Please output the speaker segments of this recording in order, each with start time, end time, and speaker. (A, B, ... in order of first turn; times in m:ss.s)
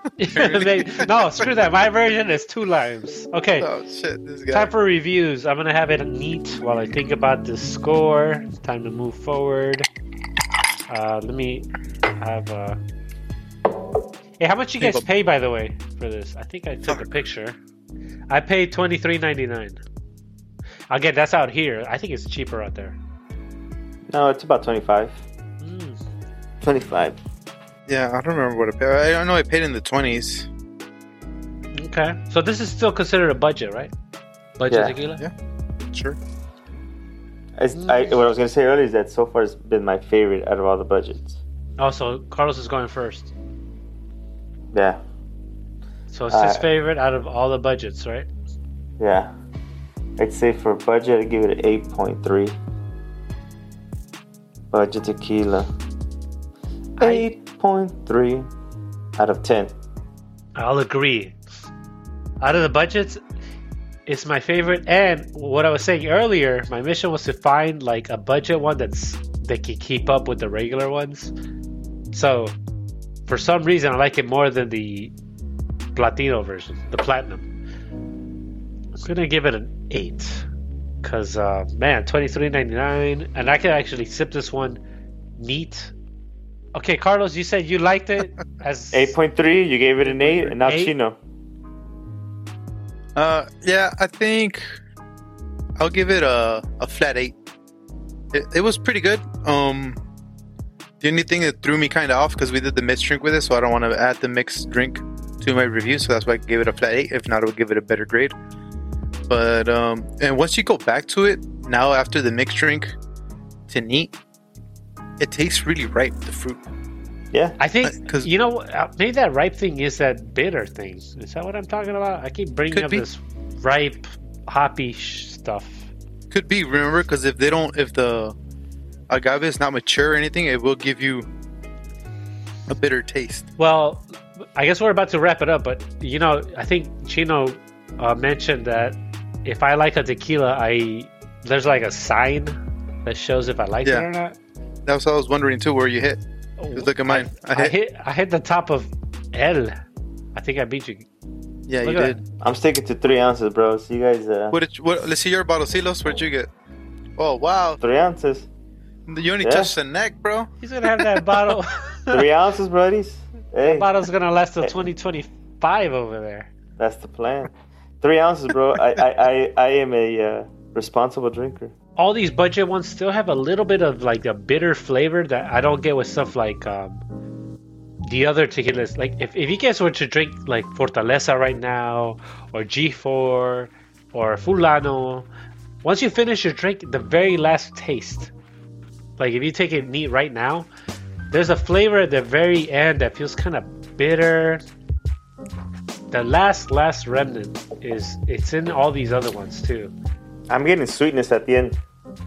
0:00.2-0:03.7 A
0:00.3-0:01.4 B
0:03.6-0:04.7 B
0:04.5-0:09.9 A
0:10.9-0:11.7 A
0:12.2-0:12.8 A
0:14.4-0:17.6 A
0:18.3-0:19.8 A
0:20.9-0:23.0 A
0:24.1-0:25.2 C
0:25.6-0:26.0 A
0:26.6-0:27.2 C
0:27.9-0:30.5 B
0:31.8-0:33.9 A
0:34.6-0:35.2 A
0:34.7-0:35.0 C
0:35.8-0:36.2 B
0:37.6-0:41.4 C
0:37.7-0:38.1 A
0:41.8-0:43.3 A
0:44.7-0:45.0 C
0:46.1-0:48.3 A
0:46.3-0:46.6 C
0:49.0-0:49.3 C
0:50.2-0:52.6 C
0:54.7-0:55.7 C
0:57.0-0:57.2 A
0:57.0-0:58.5 C
0:59.2-0:59.7 C
1:00.6-1:01.4 A
1:02.4-1:03.2 A
1:04.1-1:11.3 A
1:12.1-1:12.6 A
1:13.3-1:15.1 A
1:16.0-1:17.5 A
1:19.0-1:20.5 A
1:21.0-1:24.8 A
1:25.4-1:25.9 A
1:26.8-1:29.2 A
1:28.9-1:31.2 C
1:30.0-1:30.9 A
1:33.2-1:34.8 B
1:35.8-1:37.4 B
1:38.3-1:40.0 B
1:41.0-1:48.3 B
1:49.3-1:52.9 B
1:53.7-1:54.1 B
1:55.2-1:56.6 B
1:57.3-1:57.6 C
1:57.6-2:05.9 A
1:57.8-1:58.3 B
2:02.7-2:03.0 B
2:06.3-2:08.4 B
2:09.1-2:11.3 B
2:12.7-2:13.5 B
2:13.6-2:24.4 A
2:24.8-2:26.2 B
2:26.6-2:29.8 A
2:26.8-2:27.7 B
2:30.4-2:31.1 A
2:31.7-2:32.2 B
2:31.8-2:32.2 A
2:32.4-2:34.5 C
2:34.5-2:36.5 B
2:37.2-2:37.8 B
2:37.8-2:38.5 C
2:39.1-2:41.2 B
2:39.4-2:39.7 C
2:40.6-2:42.3 A
2:42.1-2:43.9 C
2:43.6-2:46.5 A
2:46.8-2:51.7 C
2:52.0-2:57.0 A
2:58.0-3:05.3 A
3:05.8-3:08.3 A
3:09.2-3:10.7 A
3:11.3-3:14.6 A
3:16.1-3:19.9 A
3:20.5-3:21.8 C